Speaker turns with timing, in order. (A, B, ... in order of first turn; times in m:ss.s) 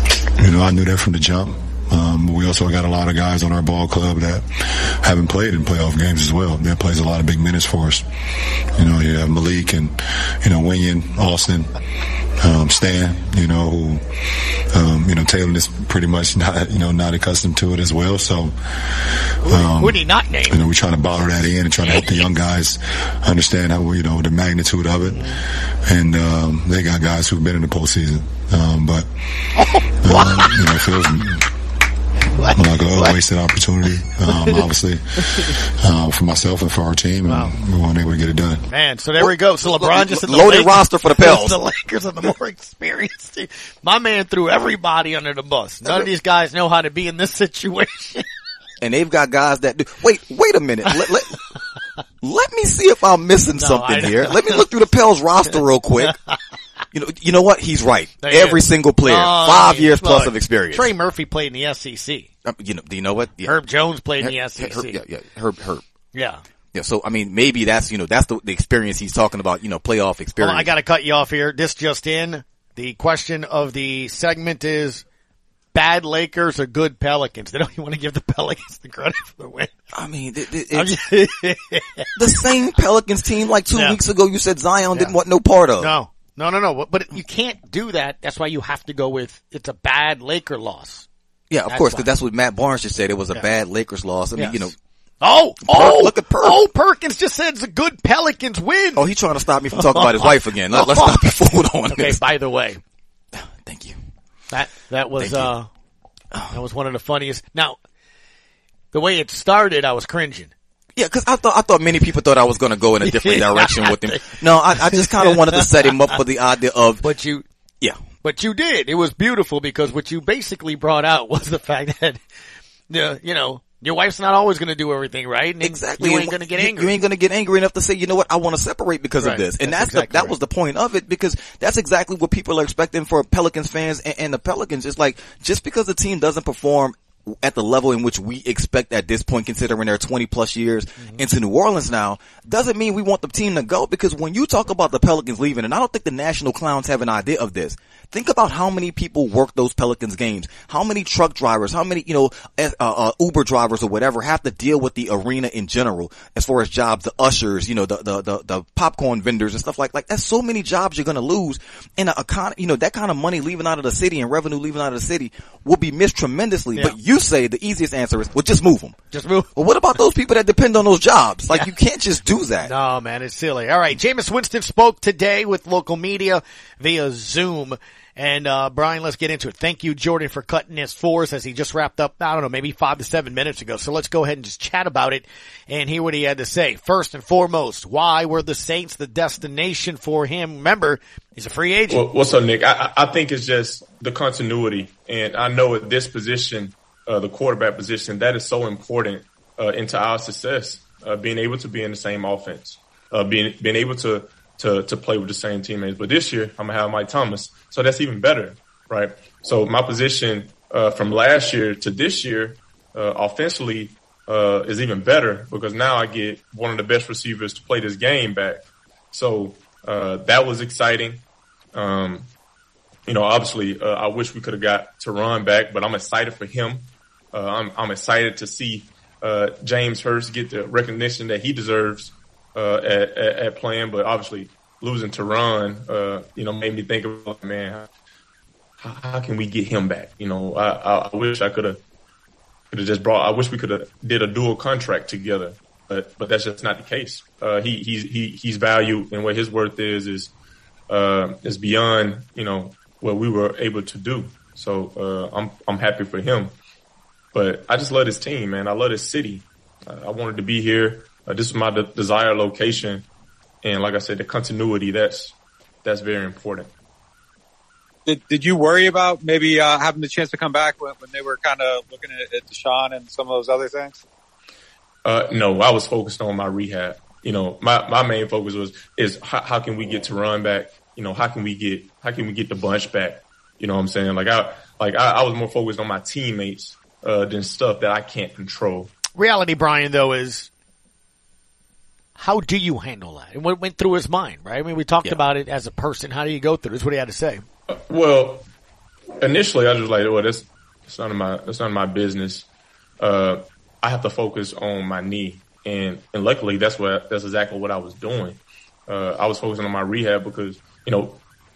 0:00.4-0:08.1 A
0:08.8-0:11.7 A
0:12.4-0:14.1 A
0:14.6-0:29.5 A
0:19.4-0:20.6 B
0:21.8-0:22.3 B
0:29.6-0:30.6 B
0:30.0-0:31.5 A
0:32.4-0:33.2 B
0:32.5-0:38.6 A
0:34.4-0:34.6 B
0:37.3-0:37.6 B
0:38.7-0:48.2 B
0:39.2-0:41.6 C
0:48.8-0:51.4 C
0:52.2-0:56.2 C
0:53.6-0:54.6 B
0:56.9-1:00.9 C
0:58.2-1:02.3 B
1:02.4-1:03.5 C
1:03.4-1:05.0 B
1:04.2-1:05.8 C
1:06.1-1:06.4 B
1:06.7-1:10.7 C
1:10.4-1:15.0 B
1:15.7-1:19.7 B
1:19.9-1:21.0 C
1:20.7-1:22.1 B
1:22.2-1:25.9 C
1:23.7-1:24.0 B
1:25.8-1:31.1 B
1:31.5-1:34.8 C
1:31.7-1:32.1 B
1:34.4-1:34.7 B
1:35.2-1:39.1 B
1:35.7-1:36.6 C
1:39.0-1:42.2 C
1:39.8-1:41.3 B
1:41.9-1:42.8 B
1:43.4-1:44.0 C
1:44.5-1:45.7 B
1:45.2-1:45.5 C
1:46.5-1:47.8 B
1:48.9-1:50.5 B
1:51.0-1:57.0 C
1:53.0-1:56.0 B
1:57.0-1:57.4 B
1:58.2-2:02.2 B
2:02.9-2:07.0 B
2:05.6-2:49.0 C
2:09.2-2:10.4 B
2:49.1-2:49.6 B
2:49.6-2:52.7 C
2:52.7-3:12.0 B
3:11.9-3:42.3 D
3:43.1-3:57.9 D
3:58.8-4:01.8 D
4:02.7-4:10.3 D
4:10.9-4:16.6 D
4:17.3-4:23.1 D
4:23.6-4:26.7 D
4:28.1-4:34.0 E
4:35.0-4:48.9 D
4:49.2-4:50.5 B
4:52.2-4:57.4 B
4:57.7-4:58.5 D
4:59.2-5:02.5 D
5:03.0-5:11.2 D